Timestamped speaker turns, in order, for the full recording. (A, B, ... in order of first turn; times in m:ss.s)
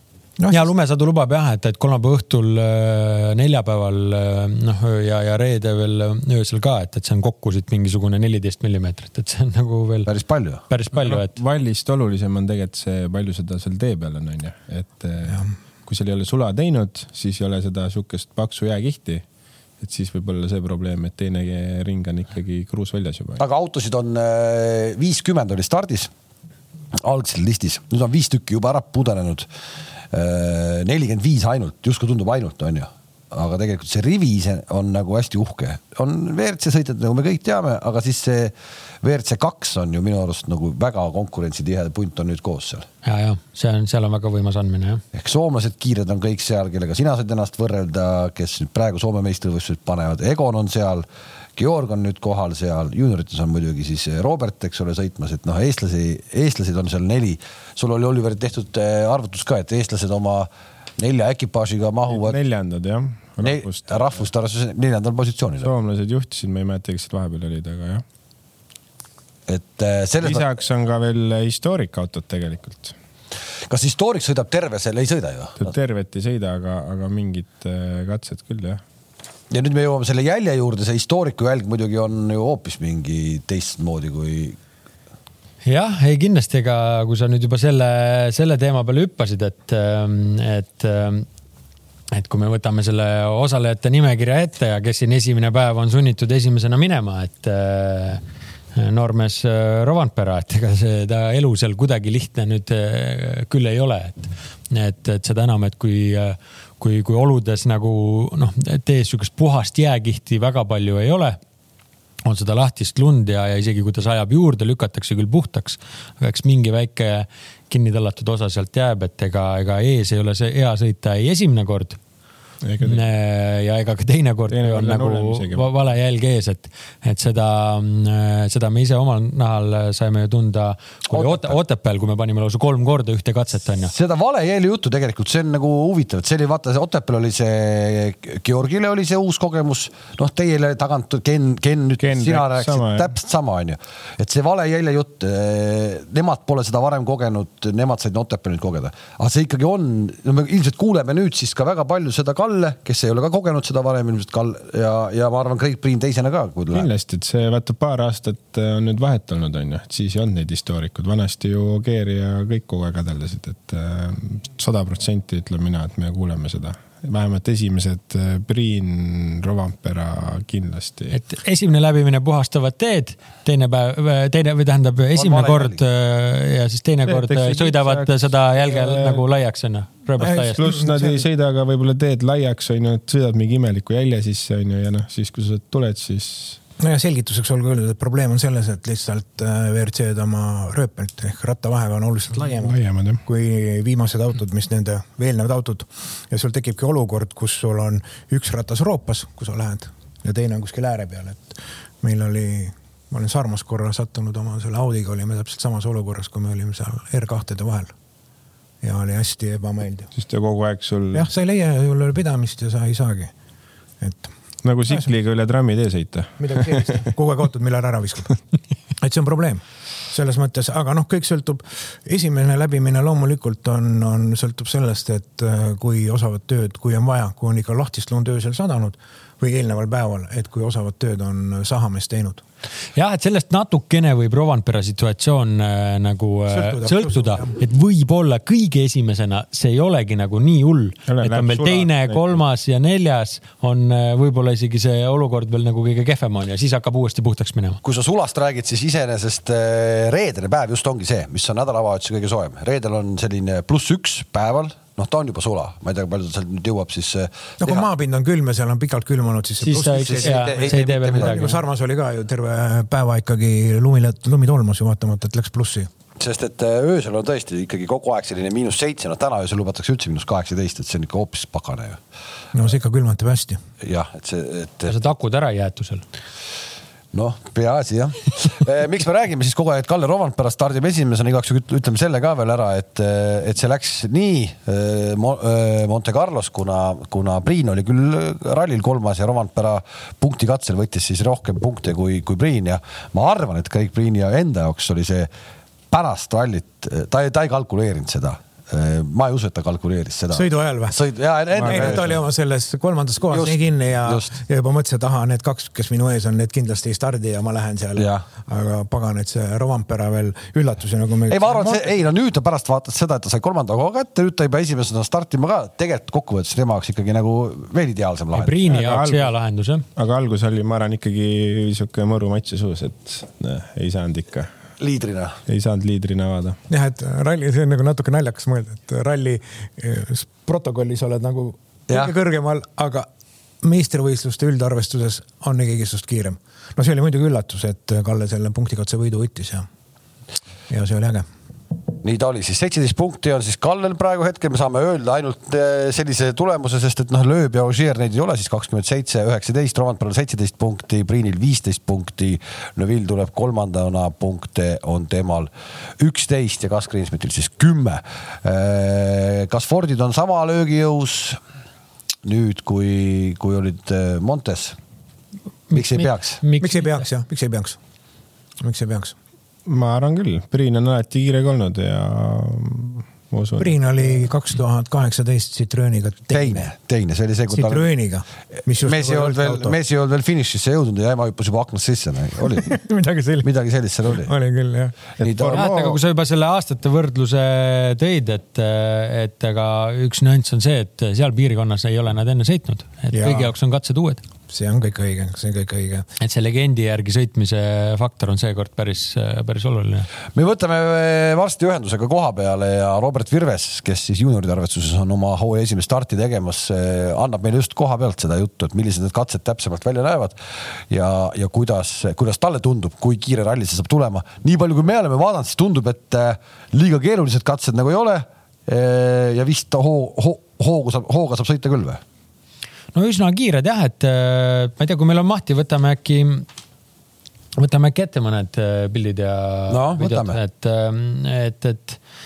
0:00.4-0:00.6 A
0:00.5-0:10.1 B
0:10.0-0:10.6 C
0:10.7-0:11.3 B
0:10.9-0:19.2 D
0:19.8-0:23.4 D
0:23.4-0:26.1 C
0:26.9-0:29.5 C
0:30.1-0:42.9 C
0:43.0-0:45.0 B
0:45.1-1:02.4 C
1:02.1-1:04.2 D
1:03.4-1:05.7 C
1:05.6-1:08.0 D
1:09.5-1:10.4 C
1:10.2-1:12.9 D
1:13.7-1:15.7 C
1:15.6-1:18.8 D
1:19.5-1:24.6 C
1:25.6-1:31.3 B
1:32.1-1:38.2 B
1:38.7-1:51.4 B
1:52.2-2:02.0 B
2:02.6-2:03.0 D
2:02.8-2:13.9 B
2:04.5-2:05.7 D
2:11.1-2:11.6 C
2:13.8-2:36.9 C
2:22.0-2:23.1 D
2:36.7-2:51.2 D
2:51.1-3:00.6 B
2:55.1-2:55.8 C
2:57.0-2:59.2 D
3:00.2-3:01.2 A
3:00.5-3:06.6 D
3:06.8-3:27.9 A
3:12.4-3:13.2 D
3:28.8-3:30.1 A
3:30.2-3:31.2 D
3:31.1-3:33.3 A
3:34.0-3:34.3 A
3:34.6-3:37.0 D
3:36.4-3:38.4 A
3:39.0-3:52.4 A
3:53.0-4:07.8 B
3:56.5-3:57.5 A
4:01.1-4:02.2 D
4:07.8-4:17.9 C
4:17.6-4:25.9 A
4:19.6-4:21.6 B
4:19.9-4:21.6 C
4:26.2-4:32.0 C
4:32.5-4:33.6 A
4:33.8-4:35.0 C
4:34.9-4:36.0 B
4:37.1-4:55.3 C
4:55.9-5:02.2 C
5:00.3-5:01.0 A
5:01.5-5:02.0 D
5:01.6-5:12.0 A
5:03.3-5:04.3 C
5:08.0-5:08.2 C
5:11.3-5:18.6 C
5:18.3-5:19.8 B
5:18.7-5:19.3 D
5:20.0-5:24.5 D
5:24.8-5:25.4 C
5:25.5-5:26.6 D
5:26.7-5:33.1 A
5:31.9-5:32.1 C
5:33.6-5:39.7 A
5:40.7-5:41.2 A
5:42.0-6:01.4 C
6:02.2-6:04.8 C
6:05.7-6:07.0 B
6:05.7-6:06.4 C
6:06.6-6:07.8 A
6:08.6-6:09.1 A
6:09.6-6:14.3 D
6:13.6-6:16.7 A
6:16.3-6:17.9 C
6:17.5-6:19.8 A
6:18.8-6:22.8 C
6:22.6-6:23.5 A
6:23.4-6:24.3 C
6:24.2-6:25.0 A
6:25.2-6:26.0 D
6:25.2-6:25.6 C
6:25.4-6:34.2 B
6:33.1-6:33.5 A
6:34.5-6:36.0 A
6:36.2-6:40.1 B
6:40.3-7:02.0 C
7:02.9-7:06.5 B
7:07.6-7:12.0 B
7:09.7-7:10.4 C